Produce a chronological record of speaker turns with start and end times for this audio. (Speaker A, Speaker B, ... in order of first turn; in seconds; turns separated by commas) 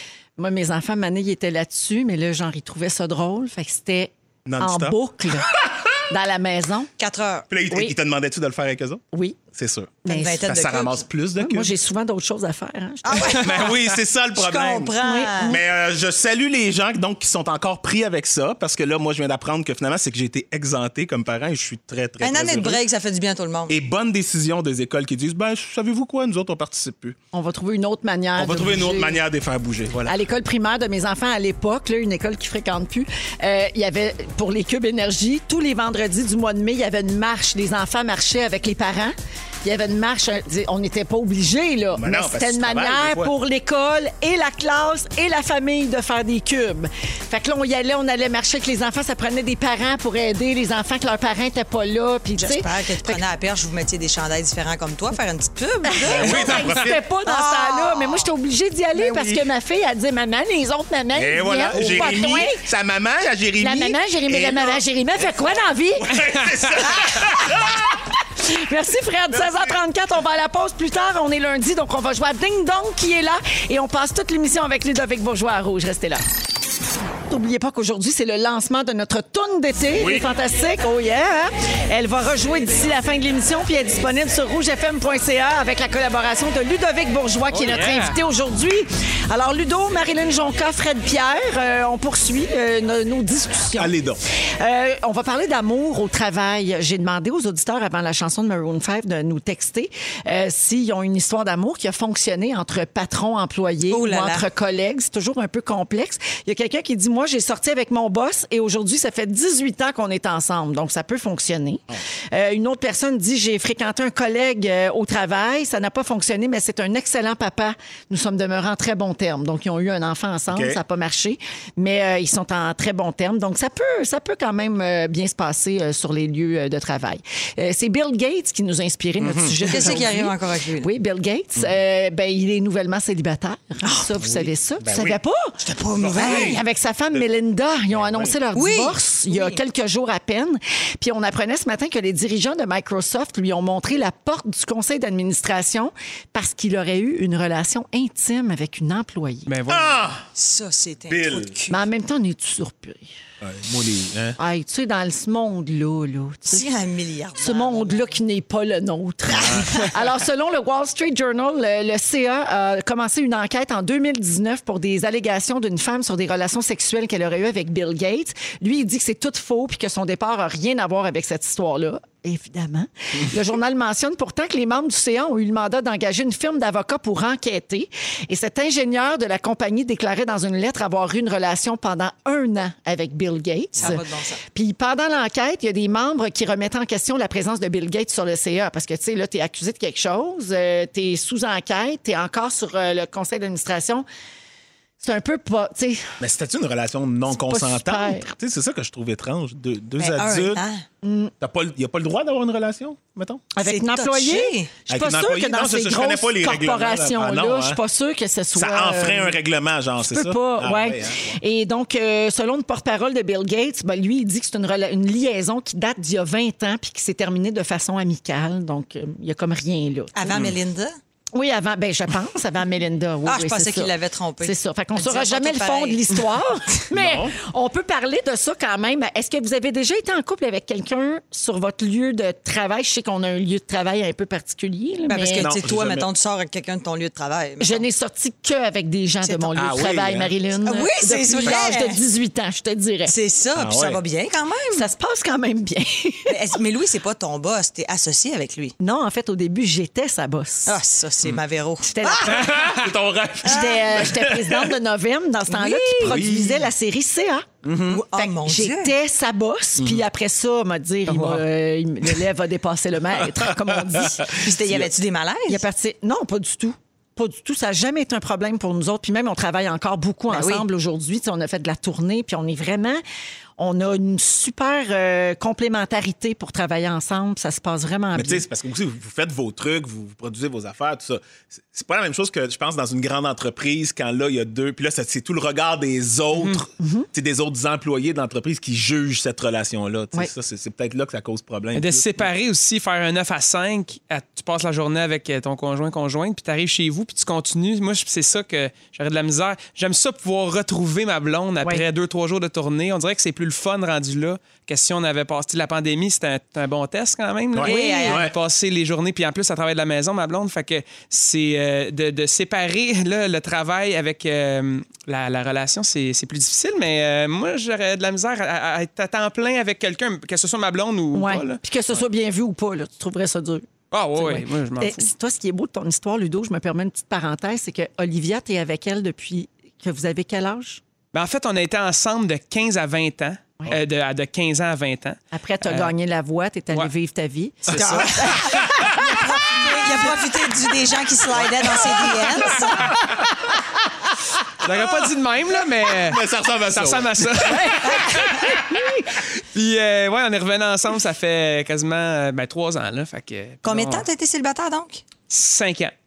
Speaker A: 0.4-6.9, Speaker B: 4.5-5.9, Speaker C: 7.0-7.5, Speaker B: 7.5-11.7, Speaker A: 7.7-7.9, Speaker A: 9.1-9.4, Speaker A: 10.0-10.5, Speaker C: 10.1-11.0, Speaker A: 11.4-13.7, Speaker C: 13.0-15.6, Speaker B: 13.4-22.8, Speaker A: 15.0-15.6, Speaker C: 22.2-23.7, Speaker B: 23.7-27.2, Speaker A: 27.3-29.2, Speaker B: 28.4-30.2, Speaker A: 30.1-53.2, Speaker B: 41.9-43.3, Speaker C: 52.4-56.6, Speaker A: 55.8-62.6, Speaker B: 56.0-57.0, Speaker C: 57.2-58.3, Speaker B: 59.0-59.3, Speaker B: 61.1-68.0, Speaker A: 63.6-66.2, Speaker A: 67.1-76.2, Speaker B: 69.3-69.7, Speaker A: 77.3-93.9, Speaker B: 80.0-80.3, Speaker D: 87.5-88.2, Speaker B: 93.8-94.2, Speaker A: 94.6-135.6, Speaker C: 103.9-104.5, Speaker B: 120.5-120.8, Speaker B: 129.2-130.0, Speaker C: 129.6-130.9, Speaker C: 133.8-134.2, Speaker B: 134.2-135.2, Speaker C: 135.6-136.6, Speaker B: 135.9-136.6, Speaker A: 136.1-149.5, Speaker B: 137.9-138.4, Speaker C: 138.5-139.6, Speaker D: 149.5-150.0, Speaker B: 149.7-150.2, Speaker C: 150.3-151.8, Speaker B: 151.1-151.6, Speaker A: 151.7-153.1, Speaker B: 153.4-154.4, Speaker A: 154.4-156.7, Speaker C: 156.5-158.1, Speaker A: 157.4-194.1, Speaker B: 159.3-159.9, Speaker C: 183.7-184.4, Speaker A: 195.0-196.1, Speaker B: 196.2-200.6, Speaker A: 197.3-198.3, Speaker C: 200.0-200.8, Speaker A: 201.0-201.3, Speaker B: 201.4-203.5, Speaker A: 203.5-209.4, Speaker C: 203.6-204.8, Speaker B: 204.9-207.8, Speaker B: 208.5-211.4, Speaker A: 210.0-220.4, Speaker C: 220.1-221.0, Speaker B: 220.3-220.6, Speaker A: 221.3-235.6, Speaker C: 223.2-226.2, Speaker B: 226.9-227.3, Speaker C: 235.1-237.8, Speaker B: 235.3-236.1, Speaker A: 237.6-243.1, Speaker C: 239.2-239.5, Speaker B: 239.5-240.3, Speaker C: 240.6-242.0, Speaker C: 243.0-244.8, Speaker B: 243.5-244.0, Speaker A: 244.7-246.3, Speaker C: 246.3-248.7, Speaker A: 248.8-250.8, Speaker C: 250.7-252.5, Speaker A: 251.8-252.6, Speaker B: 252.3-254.7, Speaker A: 253.4-257.5, Speaker C: 253.5-253.8, Speaker C: 255.5-256.3, Speaker B: 256.0-256.7, Speaker B: 257.6-258.0, Speaker C: 257.9-258.9, Speaker A: 258.1-264.4, Speaker D: 261.1-261.4, Speaker B: 263.3-264.9, Speaker C: 264.3-265.6, Speaker A: 265.5-273.0, Speaker C: 270.3-270.6, Speaker A: 273.6-278.4, Speaker B: 278.1-292.3, Speaker D: 286.3-286.6, Speaker A: 286.8-287.1, Speaker D: 291.7-321.6, Speaker B: 307.5-308.3, Speaker C: 307.6-308.2, Speaker A: 307.7-308.1, Speaker A: 321.1-330.8, Speaker D: 323.9-325.1, Speaker D: 331.1-335.9, Speaker A: 335.3-340.4, Speaker D: 337.6-338.5, Speaker C: 337.7-342.9, Speaker B: 338.6-339.0, Speaker A: 341.8-343.2, Speaker D: 342.4-343.0, Speaker B: 342.9-343.2, Speaker D: 344.6-348.6, Speaker B: 345.9-349.1, Speaker C: 347.8-348.1, Speaker A: 348.7-349.0, Speaker D: 349.5-354.1, Speaker C: 353.6-355.0, Speaker D: 355.3-355.9